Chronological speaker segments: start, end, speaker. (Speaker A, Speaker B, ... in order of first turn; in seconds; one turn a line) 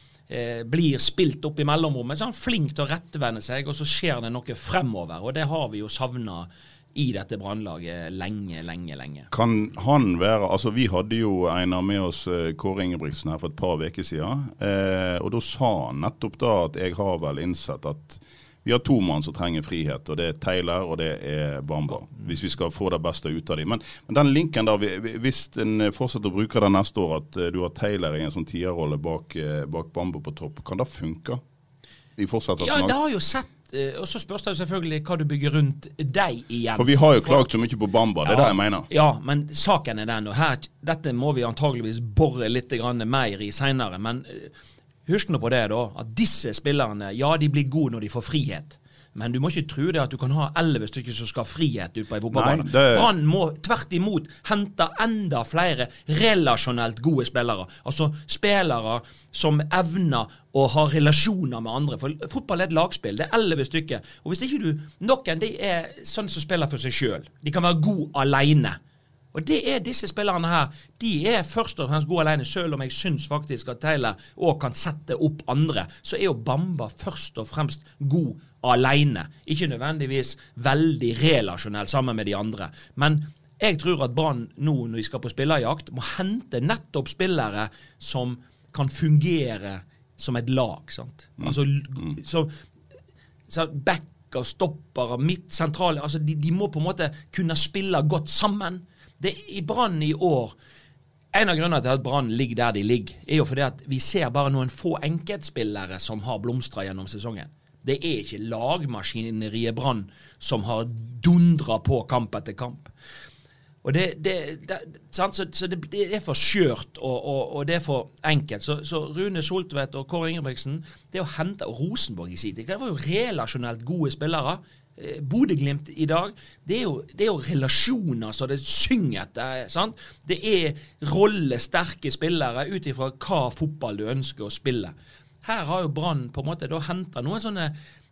Speaker A: 0.3-9.3
Speaker B: 9.3-31.4
Speaker B: 32.1-32.9
Speaker A: 32.6-37.5
Speaker B: 36.7-38.9
Speaker A: 38.2-44.5
Speaker A: 45.0-68.8
Speaker B: 52.3-53.1
Speaker A: 69.3-92.5
Speaker B: 91.4-92.1
Speaker A: 93.5-100.5
Speaker A: 101.3-112.9
Speaker A: 113.8-137.7